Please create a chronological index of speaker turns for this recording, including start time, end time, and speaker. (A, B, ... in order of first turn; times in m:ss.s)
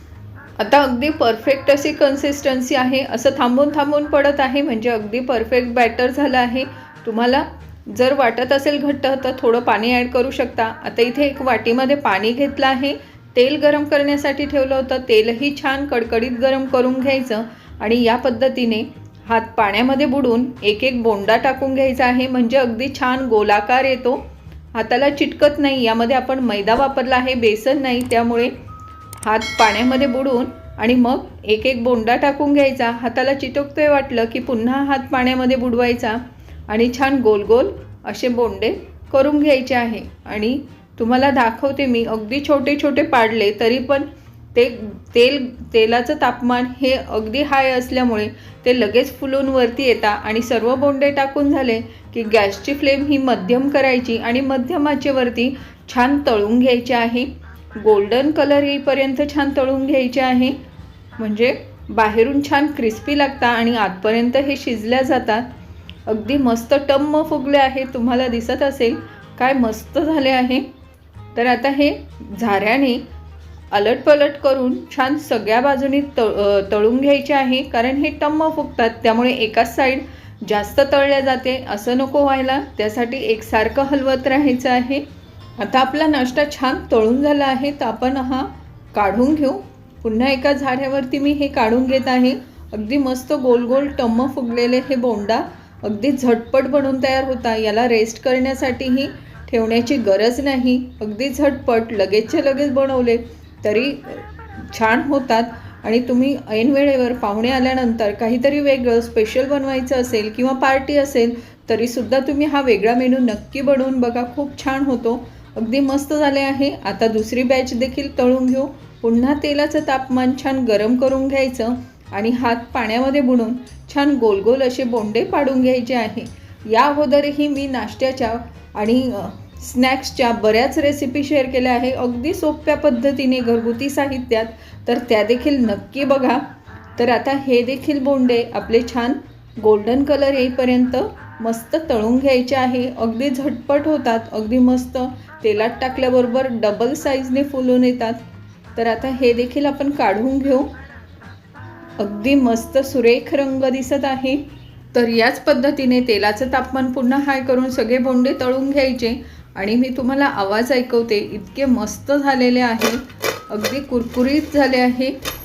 0:00.6-0:28.5 A
0:29.2-1:00.6 A
1:01.2-1:05.5 A
1:06.1-1:10.6 A
1:11.3-1:13.0 A
1:13.7-1:25.0 A
1:25.6-2:16.4 A
2:17.0-2:28.2 A
2:28.8-2:30.7 A
2:32.0-2:45.2 A